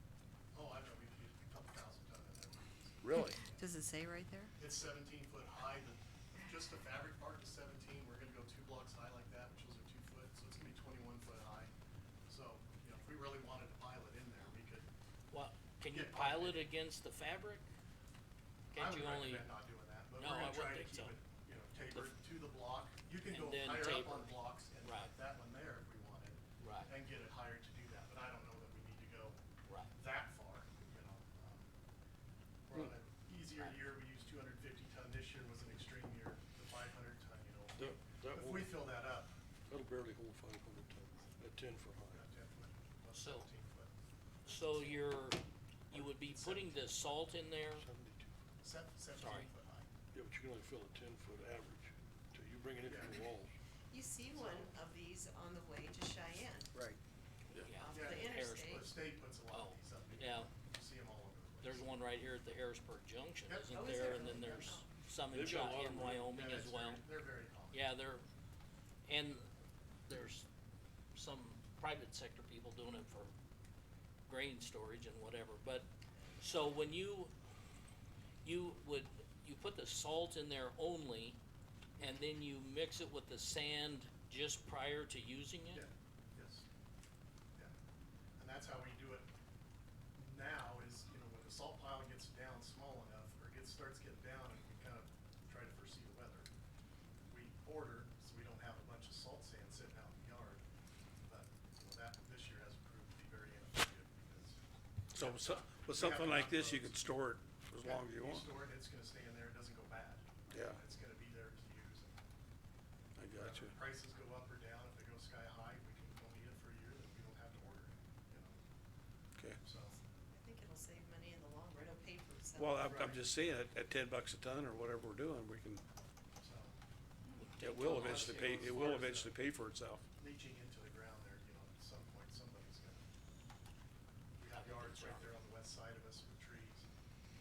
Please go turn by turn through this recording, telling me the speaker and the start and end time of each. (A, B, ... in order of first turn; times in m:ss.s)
0:00.5-0:03.6 A
0:03.0-0:03.4 B
0:03.6-0:04.5 C
0:04.6-0:11.7 A
0:12.3-0:14.8 A
0:15.3-0:17.6 D
0:15.9-0:16.7 A
0:18.7-0:19.5 D
0:18.7-0:29.4 A
0:20.2-0:21.2 D
0:23.2-0:25.1 D
0:26.6-0:26.9 D
0:29.9-0:31.7 A
0:32.7-0:39.4 A
0:37.8-0:38.8 E
0:39.7-0:42.2 E
0:42.1-0:43.9 A
0:43.1-0:43.5 D
0:44.4-0:45.0 A
0:44.4-0:47.8 D
0:45.9-0:46.8 A
0:47.7-0:48.3 E
0:48.6-0:49.9 A
0:49.2-0:49.5 D
0:50.1-0:53.5 E
0:52.8-0:53.2 A
0:53.9-0:56.7 C
0:54.3-0:54.7 A
0:57.6-0:58.9 D
0:57.7-0:58.9 C
0:57.9-1:02.0 A
0:59.5-1:00.5 D
1:01.6-1:07.0 D
1:03.4-1:04.8 A
1:03.7-1:04.9 C
1:05.3-1:06.3 E
1:06.2-1:07.8 A
1:07.7-1:08.2 D
1:09.0-1:09.4 D
1:10.1-1:10.4 D
1:11.1-1:13.3 D
1:14.3-1:17.3 D
1:18.4-1:21.4 D
1:22.0-1:25.8 D
1:25.7-1:26.6 A
1:28.4-1:29.3 A
1:30.2-1:36.5 A
1:37.3-1:40.6 A
1:41.2-1:44.6 A
1:45.1-1:48.5 B
1:45.1-1:46.9 A
1:47.8-1:52.2 A
1:50.5-1:50.8 B
1:53.2-1:53.8 B
1:53.3-1:58.6 A
1:59.6-2:00.0 A
2:00.3-2:03.2 C
2:02.6-2:05.8 B
2:06.4-2:06.8 A
2:07.4-2:09.1 D
2:07.6-2:10.0 B
2:07.8-2:09.4 A
2:10.2-2:13.1 A
2:14.4-2:16.9 A
2:14.5-2:15.4 D